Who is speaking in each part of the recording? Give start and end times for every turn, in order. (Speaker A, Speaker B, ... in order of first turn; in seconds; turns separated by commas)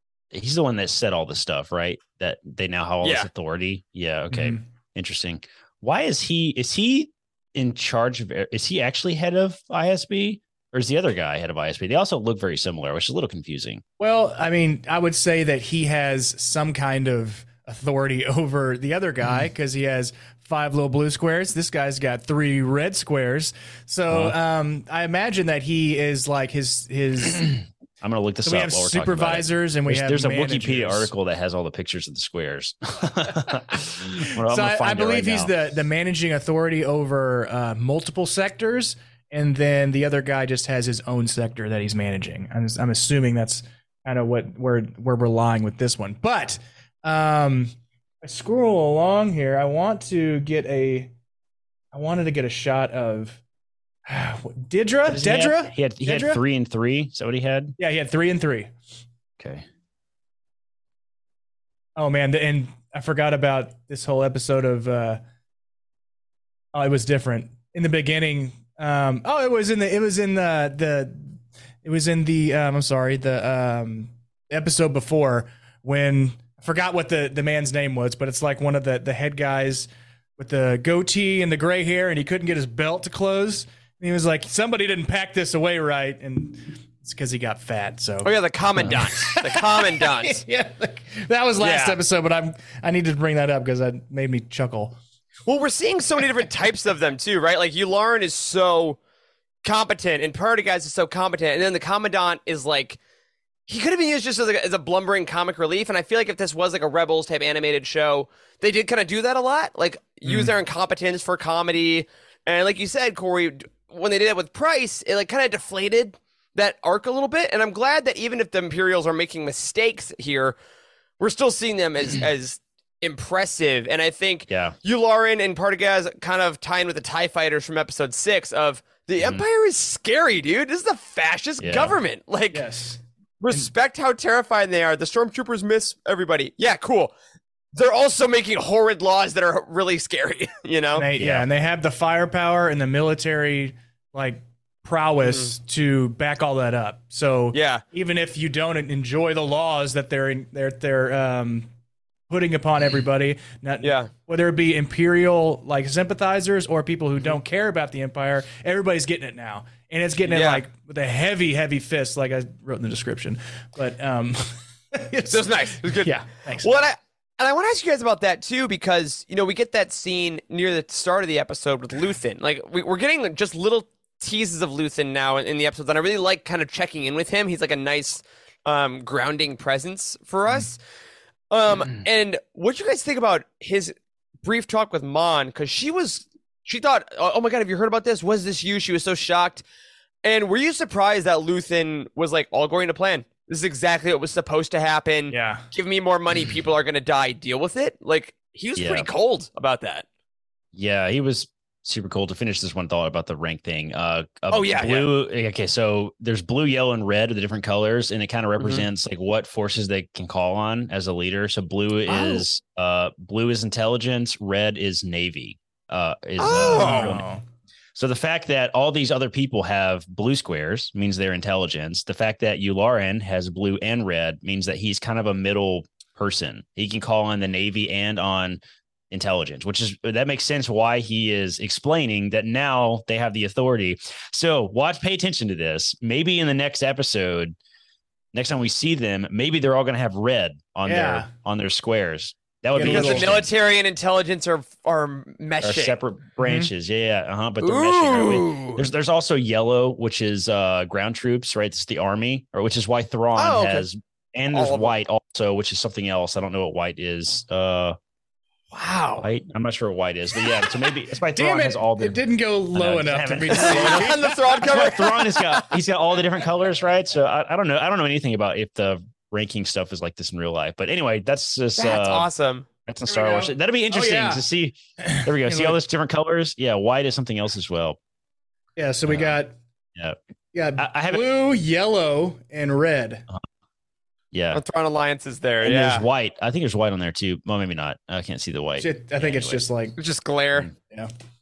Speaker A: 0.3-13.8, Speaker B: 3.0-3.3, Speaker C: 4.3-4.6, Speaker C: 14.0-27.5, Speaker A: 24.1-24.3, Speaker A: 27.3-35.5, Speaker C: 28.4-31.1, Speaker C: 33.7-51.1, Speaker C: 51.9-53.4, Speaker C: 54.1-56.4, Speaker A: 55.1-57.8, Speaker C: 57.8-58.7, Speaker A: 59.4-59.6, Speaker C: 62.0-65.2, Speaker C: 66.7-88.3, Speaker B: 88.2-90.4, Speaker C: 88.8-95.0, Speaker B: 91.6-92.0, Speaker B: 95.5-99.0, Speaker B: 99.6-103.0, Speaker B: 103.7-120.5, Speaker C: 110.2-110.5, Speaker B: 121.2-132.7, Speaker A: 124.5-124.7, Speaker A: 129.2-129.4, Speaker A: 131.6-131.9, Speaker C: 132.5-133.7, Speaker B: 133.4-137.1, Speaker B: 137.7-141.1, Speaker C: 140.9-151.7, Speaker A: 141.2-141.4, Speaker B: 145.2-145.5, Speaker B: 147.5-147.8, Speaker C: 152.3-166.8, Speaker B: 153.8-154.1, Speaker B: 160.3-160.6, Speaker B: 165.3-180.8, Speaker B: 181.5-189.6, Speaker B: 190.2-200.1, Speaker C: 195.3-195.6, Speaker A: 198.8-199.1, Speaker A: 200.7-217.2, Speaker B: 204.5-205.1, Speaker B: 208.6-208.9, Speaker B: 212.1-212.4, Speaker B: 216.4-217.2, Speaker C: 216.5-217.4, Speaker A: 217.9-237.6, Speaker A: 238.3-243.5, Speaker C: 240.8-241.3, Speaker C: 242.7-243.3, Speaker B: 242.8-245.9, Speaker A: 245.6-257.9, Speaker C: 246.4-246.7, Speaker B: 247.6-248.8, Speaker B: 253.3-253.8, Speaker B: 254.5-254.9, Speaker B: 258.7-259.2, Speaker A: 259.2-262.2, Speaker C: 261.4-264.3, Speaker A: 262.7-272.3, Speaker B: 263.6-265.8, Speaker B: 271.8-272.7, Speaker A: 272.9-278.0, Speaker C: 273.1-274.4, Speaker C: 275.0-275.8, Speaker C: 278.8-279.6, Speaker A: 279.1-279.4, Speaker C: 280.5-283.2, Speaker A: 280.8-281.2, Speaker A: 284.3-284.6, Speaker B: 284.5-286.0, Speaker A: 285.6-289.6, Speaker C: 288.8-289.9, Speaker B: 290.0-290.7